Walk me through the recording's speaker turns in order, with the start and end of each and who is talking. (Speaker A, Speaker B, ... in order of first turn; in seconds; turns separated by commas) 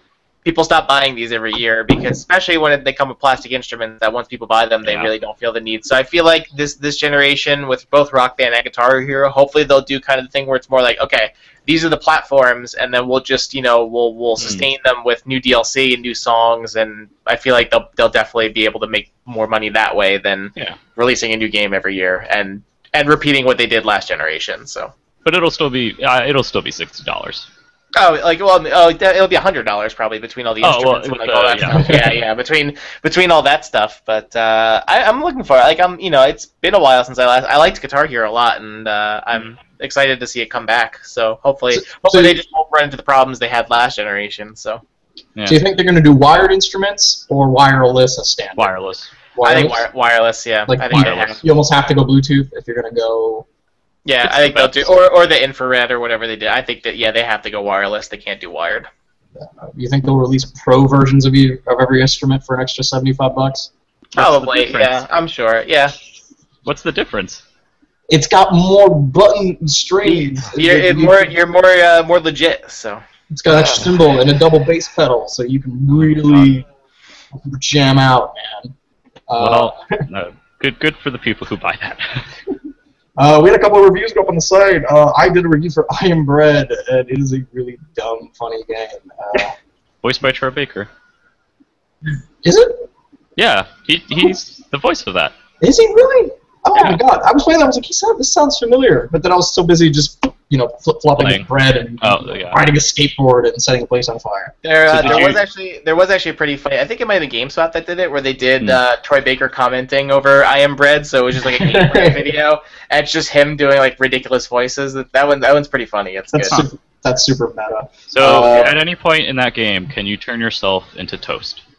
Speaker A: 0.5-24.9, Speaker B: 4.8-5.1, Speaker B: 14.4-14.7, Speaker B: 25.2-27.5, Speaker A: 27.9-44.8, Speaker B: 30.6-32.1, Speaker C: 31.7-32.1, Speaker C: 41.7-42.4, Speaker B: 45.4-45.6, Speaker C: 45.5-48.7, Speaker B: 48.6-49.1, Speaker C: 49.4-49.9, Speaker A: 49.4-51.4, Speaker C: 50.7-53.5, Speaker B: 50.9-51.4, Speaker A: 54.1-58.9, Speaker B: 54.2-54.9, Speaker C: 59.4-63.7, Speaker B: 64.1-65.0, Speaker A: 64.2-66.0, Speaker B: 66.7-67.4, Speaker C: 68.1-71.3, Speaker A: 70.5-73.9, Speaker C: 73.3-76.6, Speaker B: 75.9-76.5, Speaker C: 77.4-78.7, Speaker C: 79.3-80.0, Speaker B: 79.4-82.3, Speaker C: 83.2-89.5, Speaker B: 90.0-90.9, Speaker C: 92.4-92.9, Speaker B: 93.4-95.3, Speaker C: 95.6-105.4, Speaker B: 101.2-101.5, Speaker B: 102.0-102.6, Speaker A: 104.6-116.7, Speaker B: 104.9-105.4, Speaker C: 111.4-112.3, Speaker C: 116.3-118.7, Speaker B: 118.1-121.6, Speaker A: 118.3-118.7